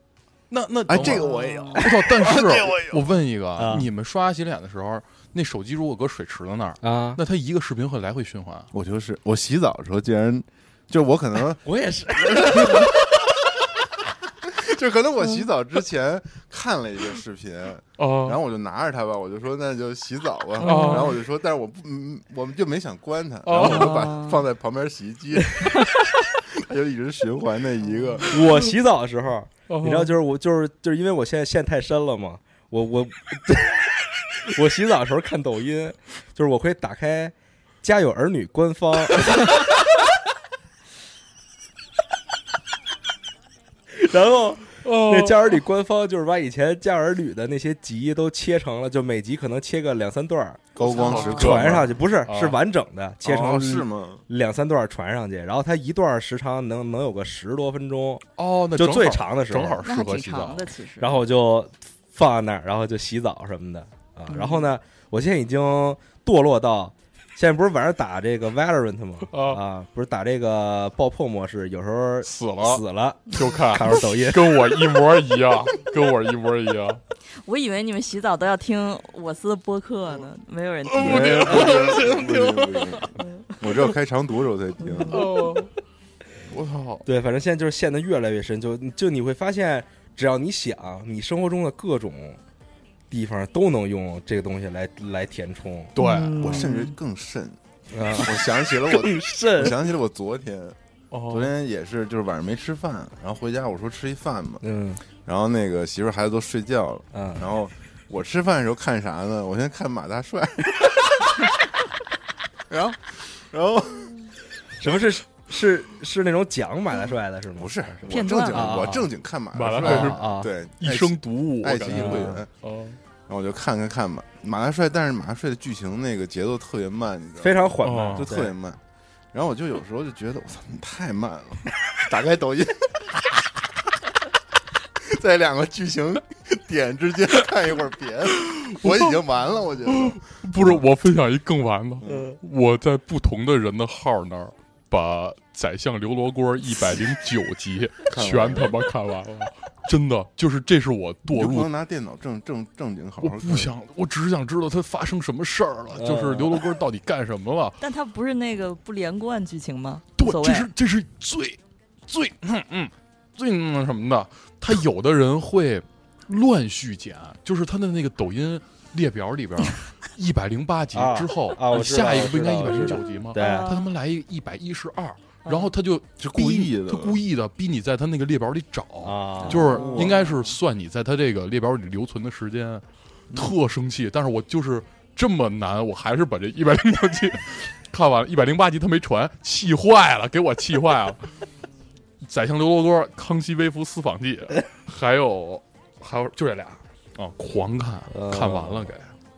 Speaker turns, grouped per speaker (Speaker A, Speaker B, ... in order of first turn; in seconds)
Speaker A: 0.5-8.7, 18.0-18.4, 20.6-21.2, 23.4-24.1, 29.7-30.1, 44.8-45.6, 50.9-52.6, 58.4-60.7, 69.3-69.6, 72.2-77.0, 80.9-83.0, 85.1-85.7, 86.5-87.0, 96.0-96.7, 101.1-101.5, 119.5-120.2, 120.8-123.0, 127.8-128.3, 138.5-139.2, 139.9-151.7, 153.2-157.8, 160.2-191.3, 192.2-199.1
Speaker B: 0.9-3.0, 8.7-13.2, 14.5-28.3, 50.8-51.9, 53.2-54.2, 81.0-85.3, 96.4-97.6, 98.1-100.8, 101.3-104.6, 105.2-111.3, 112.7-114.2, 117.6-122.5, 123.3-128.8, 129.3-133.0, 135.0-140.8, 142.0-142.3, 148.1-148.7, 151.3-153.7, 176.2-177.2
Speaker C: 1.0-1.8, 20.6-21.1, 23.6-24.4, 50.9-51.5, 59.9-61.1, 64.3-64.6, 77.5-81.7, 84.8-85.2, 96.0-96.9, 118.1-118.7, 157.8-160.7, 173.4-173.8, 175.4-175.7, 179.4-180.5
Speaker D: 3.6-3.9, 6.8-7.2, 11.6-13.0, 28.3-39.7, 43.9-50.7, 51.4-59.9, 61.0-74.8, 87.0-92.4, 93.1-95.9, 97.9-99.9, 104.6-105.0, 107.1-107.5, 114.8-117.7, 118.5-119.1, 119.8-120.5, 121.9-122.4, 127.4-128.5, 155.9-156.6, 170.9-173.7, 179.0-180.1, 198.1-198.9